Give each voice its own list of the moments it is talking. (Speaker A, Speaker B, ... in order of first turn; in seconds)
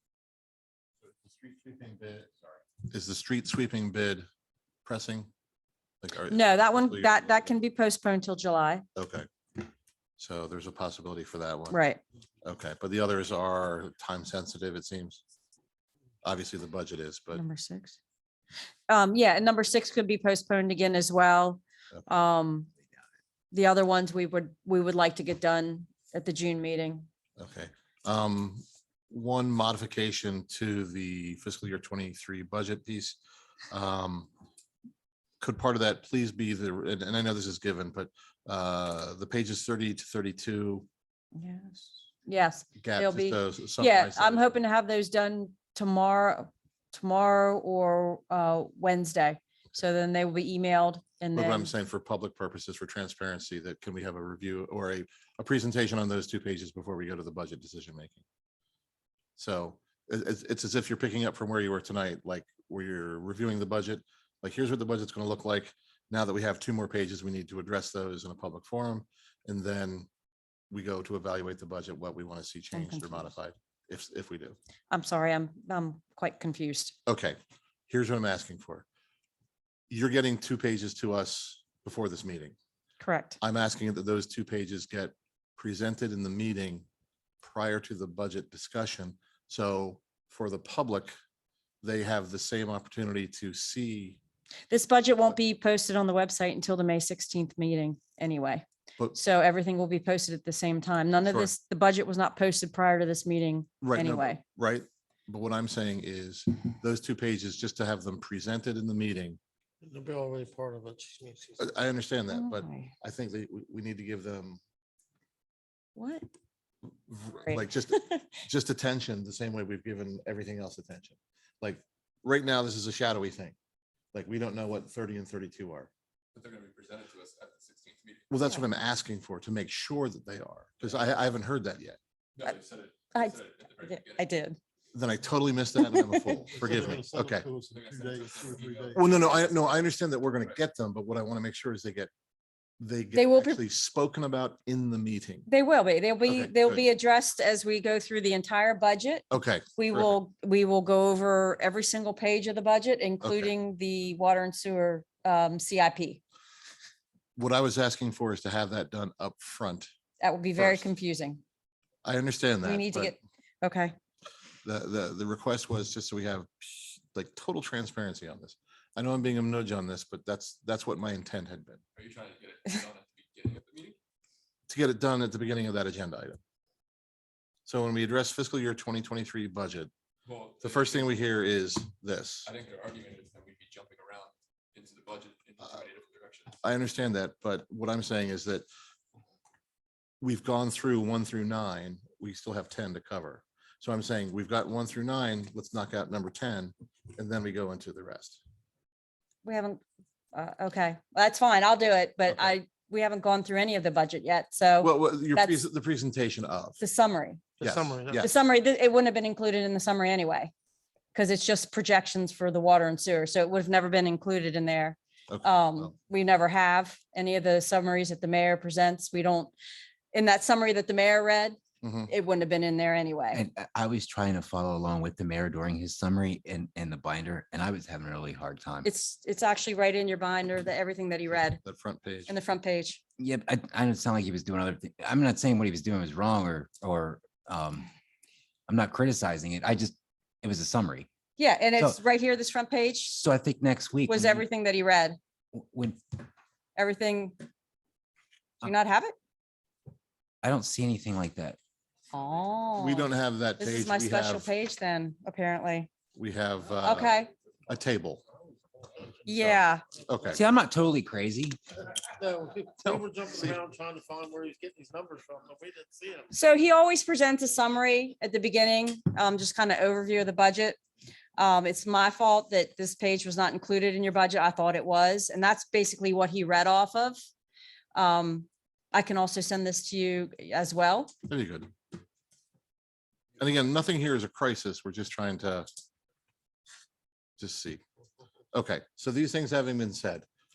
Speaker A: 1.2-4.2, 4.8-5.3, 6.0-7.5, 9.0-9.3, 10.2-11.8, 12.4-15.2, 16.2-17.4, 27.4-33.2, 33.7-34.3, 35.4-40.9, 42.8-44.6, 51.3-58.2, 59.4-70.1, 70.7-74.6, 77.1-77.4, 77.9-78.8, 79.9-82.5, 83.4-86.9, 87.4-91.1, 91.8-94.2, 101.2-101.5, 103.8-109.4, 111.6-114.6, 116.9-123.5, 124.1-125.9, 128.3-132.0, 134.9-137.5, 138.9-142.1, 142.8-145.5, 146.3-146.8, 149.3-150.2, 153.2-153.5, 157.4-159.9, 160.6-160.9, 162.0-163.2, 164.6-171.8, 174.7-176.4, 177.7-179.9, 180.6-182.5, 186.6-188.7, 190.2-198.4, 202.3-202.6, 204.8-206.8, 207.6-208.3, 215.3-215.9, 221.8-222.1, 231.6-232.3, 252.8-254.5, 256.1-257.2, 257.7-258.2, 259.3-260.4, 262.8-263.5, 281.3-281.7, 283.4-285.7, 287.4-287.8, 288.5-290.2
Speaker B: 6.3-8.8, 11.7-12.0, 17.3-18.0, 18.9-22.7, 23.5-27.1, 41.4-51.7, 72.7-73.3, 74.9-76.9, 83.0-83.4, 94.7-104.4, 112.3-112.9, 116.0-116.3, 133.2-134.6, 135.8-136.3, 143.1-143.6, 145.5-149.2, 149.8-156.2, 160.2-161.4, 162.6-163.9, 199.4-199.8, 200.3-205.6, 206.8-207.5, 208.2-210.5, 211.1-219.5, 220.1-223.4, 228.8-231.6, 232.3-233.0, 241.4-243.1, 244.1-245.2, 246.8-247.4, 248.6-249.2, 252.1-255.9, 256.8-257.3, 259.3-259.8, 266.3-270.8, 271.4-277.2, 277.9-281.1
Speaker C: 109.8-111.6, 136.5-139.2, 207.6-208.2, 262.1-266.3
Speaker D: 126.3-128.3, 132.4-134.3, 137.7-139.9, 172.0-174.0, 180.2-181.2, 182.4-186.5
Speaker E: 223.3-228.9, 233.2-237.9, 238.7-241.1, 243.1-244.4, 245.5-246.0, 250.4-251.6, 260.3-261.6